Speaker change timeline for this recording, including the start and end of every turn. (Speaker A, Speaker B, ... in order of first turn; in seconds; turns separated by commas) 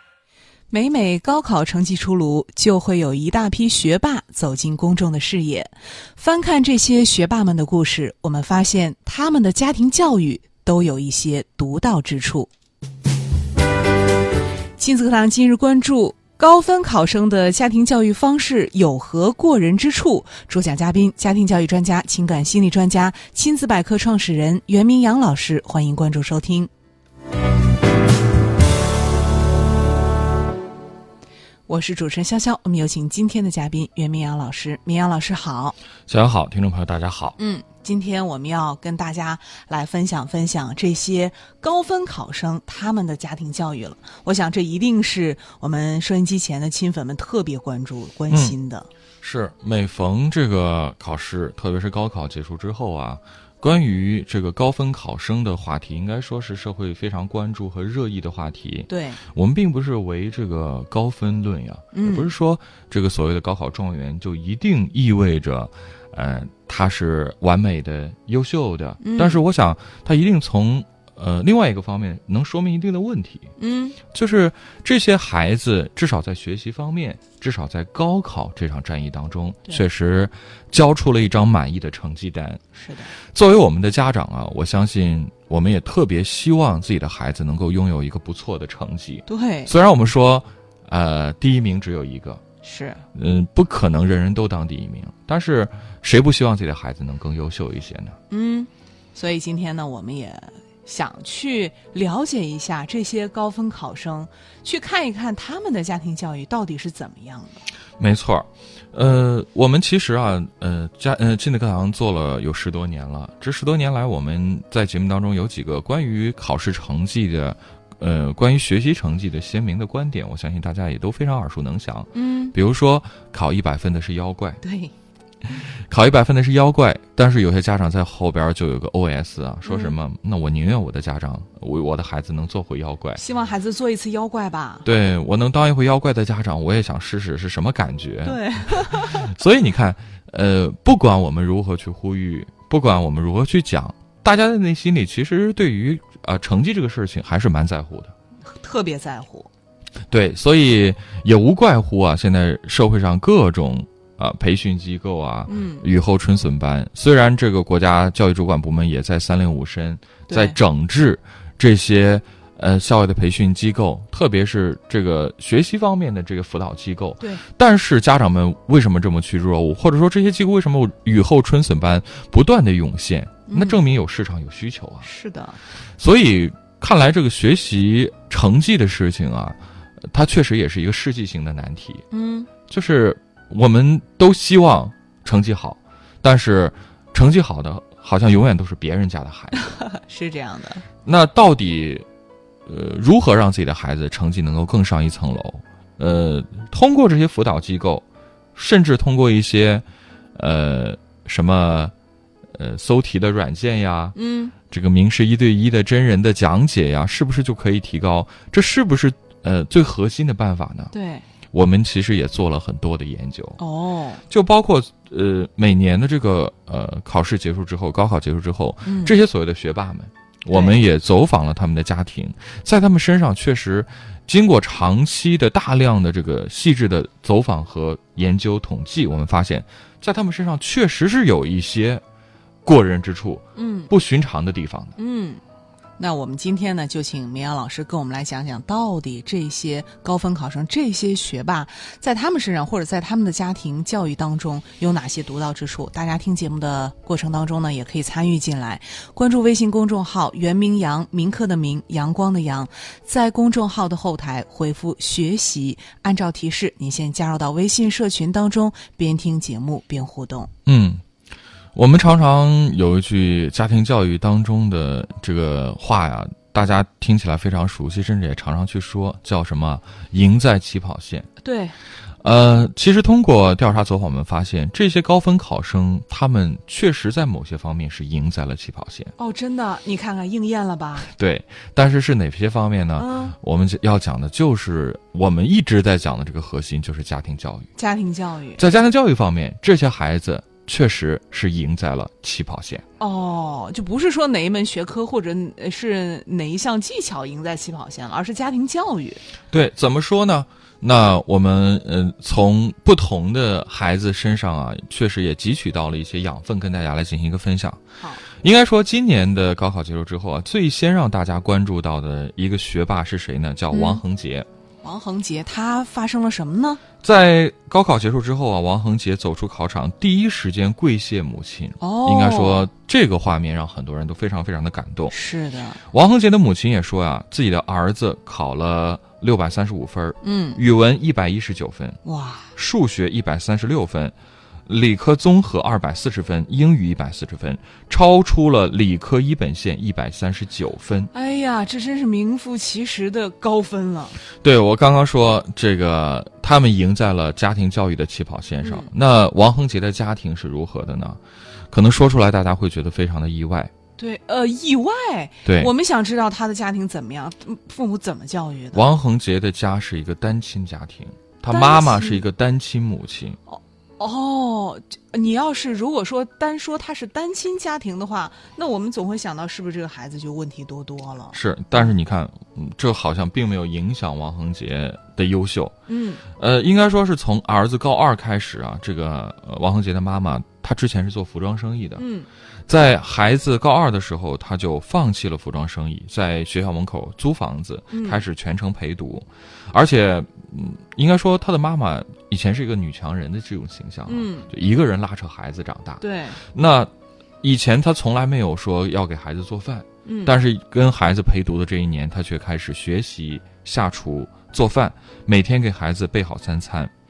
Speaker A: 0.7-12.5, Speaker A: 14.8-26.7, Speaker A: 31.7-35.8, Speaker B: 36.1-37.4, Speaker A: 37.4-48.9, Speaker B: 48.3-48.5, Speaker B: 49.2-73.5, Speaker A: 58.9-59.2, Speaker A: 61.9-62.3, Speaker A: 69.0-69.4, Speaker A: 73.6-74.0, Speaker B: 74.1-82.6, Speaker A: 82.7-83.1, Speaker B: 83.2-92.4, Speaker A: 89.3-89.7, Speaker A: 92.6-93.0, Speaker B: 93.1-98.2, Speaker A: 98.3-107.6, Speaker B: 108.0-124.6, Speaker A: 122.1-122.5, Speaker A: 124.6-124.9, Speaker B: 125.9-133.2, Speaker A: 129.6-129.9, Speaker A: 133.2-134.9, Speaker B: 134.8-148.1, Speaker A: 138.2-139.3, Speaker A: 148.5-149.5, Speaker B: 150.1-175.1, Speaker A: 155.5-155.8, Speaker A: 160.3-160.6, Speaker A: 173.5-173.8, Speaker A: 175.0-175.6, Speaker B: 176.0-182.0, Speaker A: 182.1-182.5, Speaker B: 182.7-189.8, Speaker A: 189.7-190.8, Speaker B: 191.0-192.1, Speaker B: 192.7-201.9, Speaker B: 202.5-204.2, Speaker A: 204.1-204.5, Speaker B: 204.7-210.9, Speaker A: 210.9-211.2, Speaker B: 211.5-213.6, Speaker A: 213.6-214.2, Speaker B: 214.3-232.0, Speaker A: 218.8-219.1, Speaker A: 220.5-220.8, Speaker B: 232.6-235.0, Speaker A: 233.6-233.9, Speaker A: 235.0-235.4, Speaker A: 236.0-260.5, Speaker B: 260.6-261.0, Speaker B: 261.7-271.3, Speaker A: 271.4-271.8, Speaker B: 272.2-279.1, Speaker A: 279.2-281.1, Speaker B: 281.0-287.7, Speaker A: 283.0-283.3, Speaker A: 287.8-288.6, Speaker B: 288.6-292.8, Speaker A: 293.0-299.2, Speaker B: 299.5-307.8, Speaker A: 308.0-308.2, Speaker B: 308.3-314.5, Speaker A: 313.7-314.0, Speaker A: 314.8-316.8, Speaker B: 317.0-325.1, Speaker A: 321.8-322.7, Speaker A: 325.1-325.8, Speaker B: 325.9-332.0, Speaker A: 330.2-330.6, Speaker A: 332.0-332.5, Speaker B: 332.5-334.1, Speaker B: 334.7-341.1, Speaker A: 341.1-344.2, Speaker B: 344.4-351.2, Speaker A: 348.6-348.9, Speaker B: 351.7-353.7, Speaker A: 354.0-358.8, Speaker B: 355.4-355.7, Speaker B: 358.7-363.4, Speaker A: 361.5-362.2, Speaker A: 363.5-371.9, Speaker B: 371.3-375.7, Speaker A: 375.9-376.2, Speaker B: 376.3-382.0, Speaker A: 382.0-382.3, Speaker B: 382.7-396.9, Speaker A: 387.9-388.2, Speaker A: 394.1-394.5, Speaker A: 396.0-396.4, Speaker B: 397.4-406.9, Speaker A: 400.1-400.4